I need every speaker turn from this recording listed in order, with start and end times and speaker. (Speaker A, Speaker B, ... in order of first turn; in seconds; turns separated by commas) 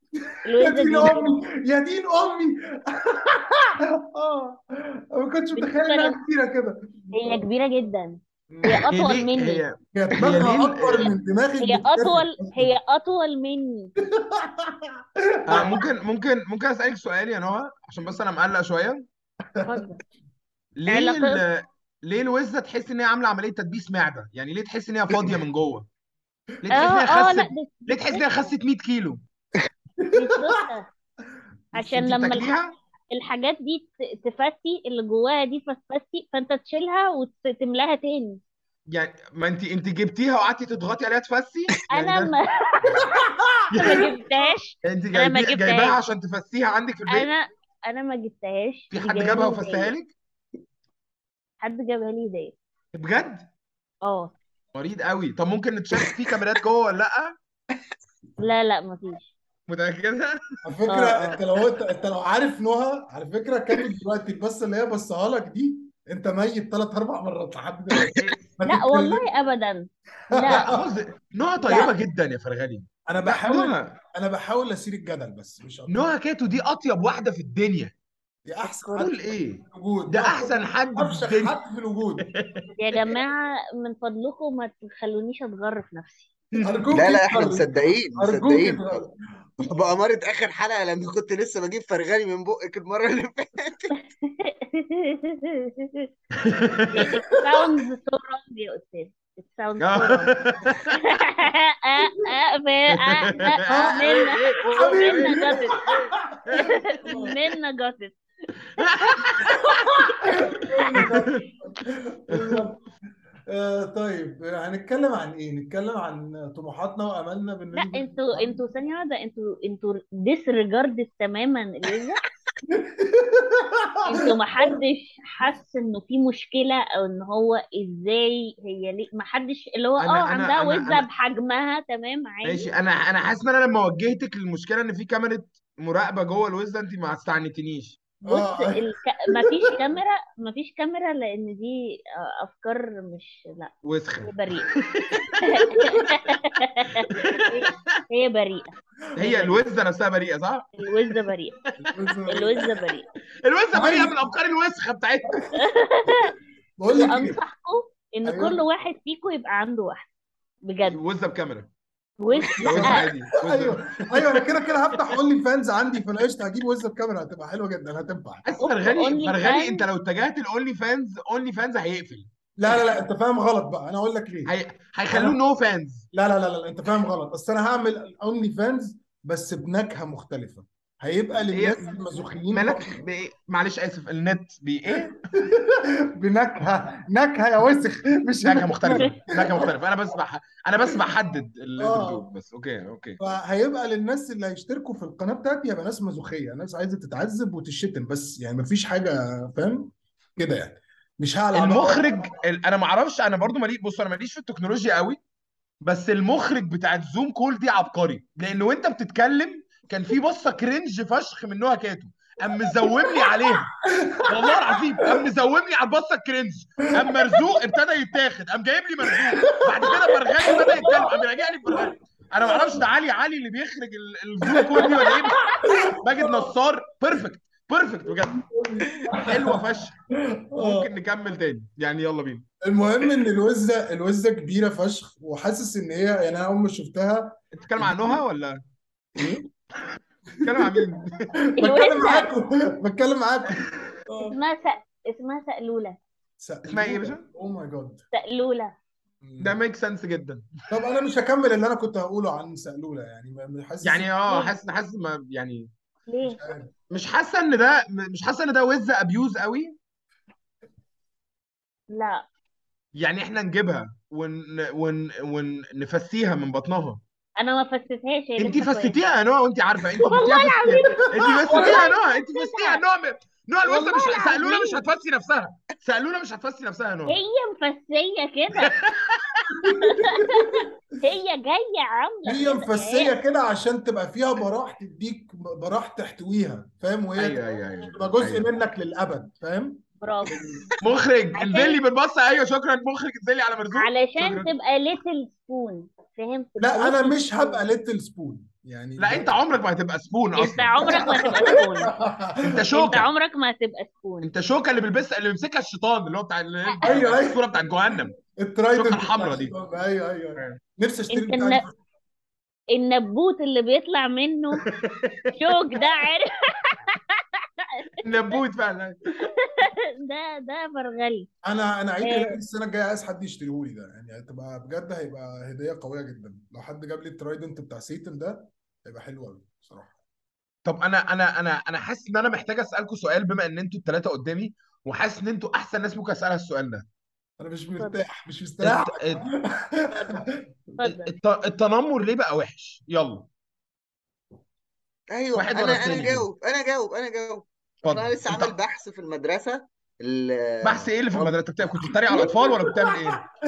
Speaker A: 0.5-1.3, Speaker B: 0.6-7.5, Speaker A: 5.6-6.2, Speaker A: 7.1-9.6, Speaker B: 8.5-8.9, Speaker C: 8.9-11.1, Speaker B: 9.9-12.7, Speaker A: 11.6-13.9, Speaker B: 14.1-15.8, Speaker C: 15.5-19.1, Speaker B: 19.6-19.8, Speaker A: 19.7-20.0, Speaker C: 20.8-25.9, Speaker A: 20.9-21.4, Speaker C: 26.6-29.2, Speaker A: 26.7-28.2, Speaker B: 30.0-30.7, Speaker A: 30.1-30.9, Speaker A: 31.7-32.6, Speaker C: 31.8-32.7, Speaker A: 33.1-38.4, Speaker C: 38.9-42.3, Speaker A: 41.9-43.1, Speaker B: 43.2-44.1, Speaker C: 43.7-44.1, Speaker A: 43.8-46.0, Speaker C: 44.8-47.3, Speaker A: 47.1-49.9, Speaker C: 48.9-50.1, Speaker A: 51.6-52.5, Speaker C: 52.9-53.5, Speaker A: 54.0-54.4, Speaker C: 54.8-57.3, Speaker A: 58.4-59.3, Speaker C: 59.7-60.4, Speaker B: 60.6-69.3, Speaker A: 60.9-61.4, Speaker C: 68.2-68.5, Speaker A: 68.7-70.8, Speaker B: 70.4-70.9, Speaker C: 70.5-74.0, Speaker B: 71.6-71.9, Speaker B: 73.1-76.1, Speaker C: 75.9-77.9, Speaker B: 78.5-82.3, Speaker A: 78.6-79.1, Speaker C: 79.0-81.6, Speaker C: 82.2-82.7, Speaker A: 82.8-86.3, Speaker B: 86.6-89.2, Speaker D: 86.9-89.0, Speaker D: 89.6-93.9, Speaker A: 94.2-96.1, Speaker C: 96.4-97.0, Speaker B: 96.8-97.7, Speaker A: 96.9-100.3, Speaker C: 99.8-101.0, Speaker A: 101.0-105.8, Speaker C: 103.0-107.0, Speaker B: 103.7-104.0, Speaker B: 104.7-106.4, Speaker A: 106.5-108.2, Speaker B: 107.0-107.4, Speaker A: 108.8-111.2, Speaker C: 108.8-109.5, Speaker B: 110.3-112.8, Speaker C: 110.9-111.4, Speaker C: 112.3-112.7, Speaker B: 113.5-118.6, Speaker A: 117.7-122.2, Speaker B: 122.7-124.0, Speaker A: 124.0-132.7, Speaker C: 130.0-131.1, Speaker C: 132.4-138.0, Speaker B: 138.3-138.8, Speaker A: 138.3-143.7, Speaker B: 139.4-140.0, Speaker C: 143.8-145.7, Speaker A: 144.2-144.7, Speaker A: 145.4-148.7, Speaker C: 147.1-147.8, Speaker C: 149.2-151.2, Speaker B: 149.2-149.6, Speaker A: 150.8-151.6, Speaker B: 151.8-152.6, Speaker A: 152.3-153.1, Speaker C: 153.4-155.4, Speaker B: 153.7-154.4, Speaker A: 155.6-156.3, Speaker B: 156.8-157.4, Speaker A: 156.9-160.1, Speaker B: 158.2-158.6, Speaker A: 160.7-161.0, Speaker C: 160.9-161.7, Speaker A: 162.2-163.1, Speaker B: 162.6-168.5, Speaker C: 162.6-164.5, Speaker C: 168.4-173.0, Speaker A: 168.6-169.8, Speaker B: 172.6-174.5, Speaker C: 174.5-176.1, Speaker B: 175.1-175.4, Speaker B: 176.1-183.0, Speaker C: 181.5-182.0, Speaker C: 182.5-185.2, Speaker B: 184.9-189.7, Speaker C: 188.4-193.2, Speaker B: 191.8-192.3, Speaker B: 193.2-202.3, Speaker C: 201.5-205.2, Speaker C: 205.8-213.8, Speaker B: 214.0-215.0, Speaker C: 214.3-228.4, Speaker B: 219.1-221.9, Speaker B: 222.5-222.8, Speaker B: 224.5-225.2, Speaker A: 225.0-225.6, Speaker B: 225.8-226.5, Speaker B: 228.2-229.6, Speaker C: 229.2-229.9, Speaker B: 230.5-230.9, Speaker C: 230.6-232.4, Speaker B: 232.7-238.2, Speaker C: 237.6-238.6, Speaker C: 240.4-241.3, Speaker B: 240.5-240.7, Speaker B: 241.6-244.4, Speaker A: 241.6-242.3, Speaker A: 244.2-246.0, Speaker B: 246.4-248.0, Speaker C: 246.7-247.2, Speaker A: 248.1-248.7, Speaker B: 249.2-249.6, Speaker C: 249.4-250.5, Speaker B: 250.7-254.2, Speaker C: 253.8-255.7, Speaker A: 256.1-256.4, Speaker B: 256.3-256.7, Speaker C: 256.9-259.8, Speaker A: 261.9-262.2, Speaker C: 262.9-267.0, Speaker A: 267.4-269.0, Speaker C: 268.4-277.2, Speaker A: 270.0-272.8, Speaker A: 273.7-274.8, Speaker A: 277.1-278.7, Speaker C: 278.6-279.5, Speaker B: 279.6-280.7, Speaker A: 279.6-283.1, Speaker B: 282.3-290.6, Speaker C: 287.2-288.5, Speaker A: 290.0-290.6, Speaker C: 290.8-294.5, Speaker A: 291.4-291.8, Speaker A: 293.8-297.6, Speaker B: 296.6-299.4, Speaker C: 299.0-300.9, Speaker A: 300.4-301.9, Speaker B: 300.8-302.6, Speaker C: 302.4-303.1, Speaker A: 302.7-304.3, Speaker C: 304.2-308.1, Speaker B: 306.8-307.4, Speaker B: 308.0-311.8, Speaker C: 308.7-309.6, Speaker A: 311.1-311.6, Speaker A: 312.7-314.6, Speaker C: 314.6-315.8, Speaker A: 315.3-318.4, Speaker C: 318.0-319.3, Speaker A: 319.3-321.3, Speaker B: 321.4-329.9, Speaker A: 322.0-322.4, Speaker C: 330.6-336.9, Speaker B: 337.4-340.3, Speaker A: 337.8-338.0, Speaker C: 338.6-339.2, Speaker A: 340.8-341.1, Speaker C: 341.1-343.3, Speaker D: 345.1-350.9, Speaker C: 345.3-346.3, Speaker C: 347.8-348.6, Speaker C: 350.6-353.2, Speaker B: 351.1-353.3